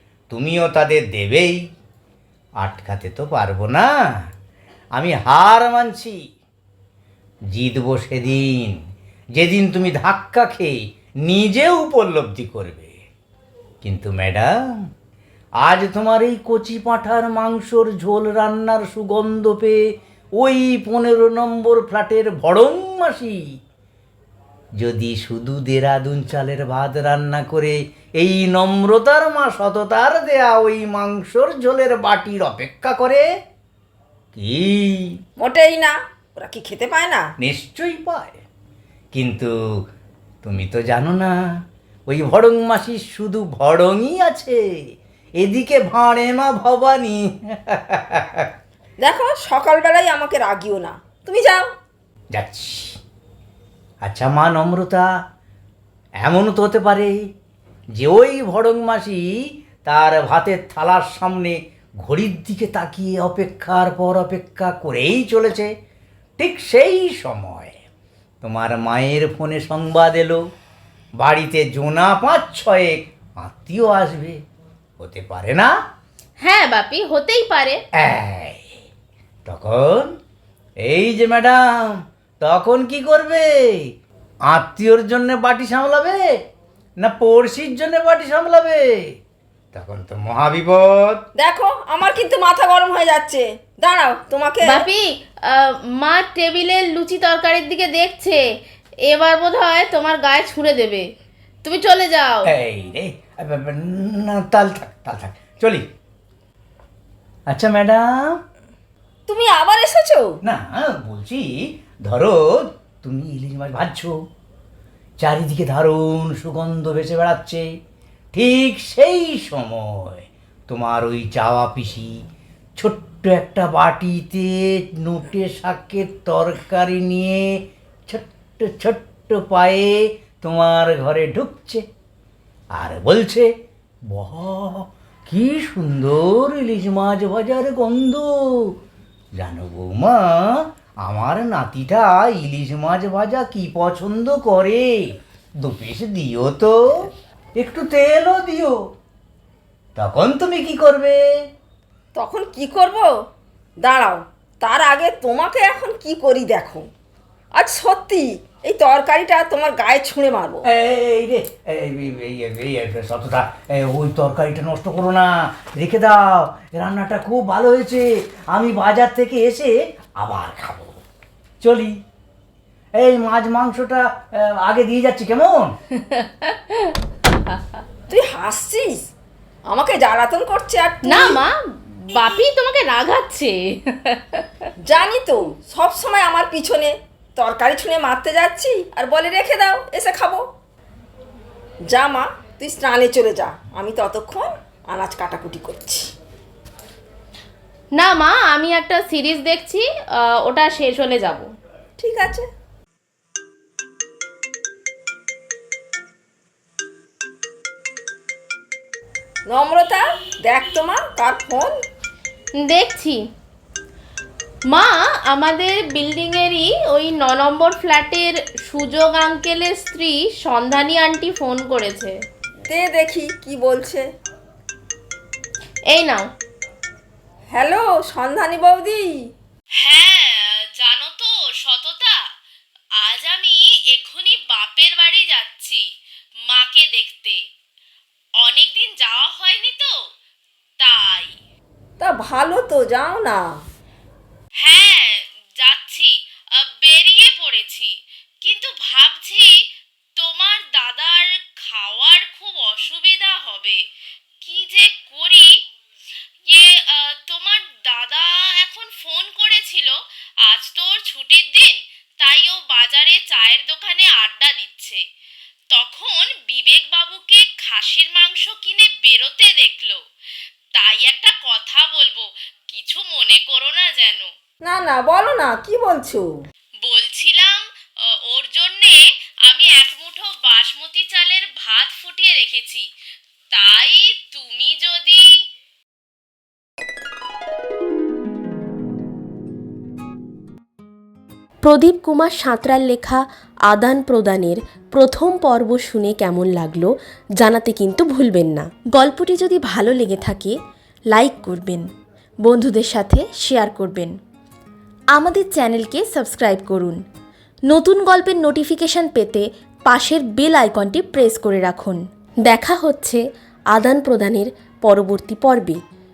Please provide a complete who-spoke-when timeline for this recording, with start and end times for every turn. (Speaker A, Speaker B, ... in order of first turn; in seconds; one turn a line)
Speaker A: 0.3-1.6
Speaker A: 2.6-3.9
Speaker A: 5.0-6.2
Speaker A: 7.5-8.8
Speaker A: 9.3-12.9
Speaker A: 13.8-14.5
Speaker A: 15.6-19.8
Speaker A: 20.4-23.4
Speaker A: 24.8-33.2
Speaker A: 34.3-35.1
Speaker B: 35.4-37.2
Speaker A: 37.4-38.4
Speaker A: 39.1-39.5
Speaker A: 40.4-41.3
Speaker A: 42.1-44.6
Speaker A: 45.4-48.5
Speaker B: 49.0-51.6
Speaker A: 52.3-53.0
Speaker A: 54.0-55.0
Speaker A: 56.2-57.2
Speaker A: 57.9-59.2
Speaker A: 59.8-65.7
Speaker A: 66.4-67.8
Speaker A: 68.4-70.4
Speaker A: 71.2-74.4
Speaker A: 75.0-75.7
Speaker C: 76.4-77.8
Speaker A: 78.0-78.7
Speaker A: 79.5-80.1
Speaker A: 80.8-83.5
Speaker A: 84.5-86.2
Speaker A: 87.0-89.0
Speaker A: 89.7-91.2
Speaker B: 91.3-94.9
Speaker C: 94.6-98.4
Speaker C: 99.1-101.0
Speaker C: 101.6-102.5
Speaker A: 102.4-105.9
Speaker A: 107.5-108.4
Speaker B: 109.3-110.3
Speaker A: 110.4-114.2
Speaker A: 115.2-117.7
Speaker A: 118.3-122.1
Speaker A: 122.8-131.8
Speaker A: 132.8-133.5
Speaker A: 134.1-138.7
Speaker A: 139.4-148.7
Speaker A: 149.9-151.2
Speaker B: 152.1-153.1
Speaker B: 153.8-156.9
Speaker B: 157.5-160.6
Speaker A: 160.6-171.0
Speaker A: 171.6-172.0
Speaker A: 172.9-175.7
Speaker C: 176.0-176.9
Speaker B: 178.1-179.1
Speaker B: 179.7-181.4
Speaker C: 181.0-184.6
Speaker B: 184.8-190.4
Speaker B: 191.9-196.1
Speaker C: 198.0-201.5
Speaker B: 202.0-202.4
Speaker B: 209.5-211.7
Speaker C: 212.6-213.2
Speaker C: 214.7-222.2
Speaker B: 222.7-224.1
Speaker C: 225.9-226.3
Speaker B: 227.5-229.1
Speaker C: 229.8-232.2
Speaker C: 233.0-235.8
Speaker C: 236.5-237.4
Speaker C: 238.4-240.0
Speaker C: 240.8-241.3
Speaker B: 242.0-243.4
Speaker C: 244.6-249.5
Speaker C: 250.2-253.8
Speaker C: 254.4-255.6
Speaker C: 256.5-265.0
Speaker C: 265.7-270.0
Speaker C: 270.8-274.3
Speaker B: 274.6-276.2
Speaker C: 276.8-282.9
Speaker C: 283.5-285.3
Speaker D: 291.6-300.5
Speaker D: 301.1-301.9
Speaker D: 302.5-304.1
Speaker D: 305.1-306.9
Speaker D: 307.7-313.2
Speaker D: 313.7-315.8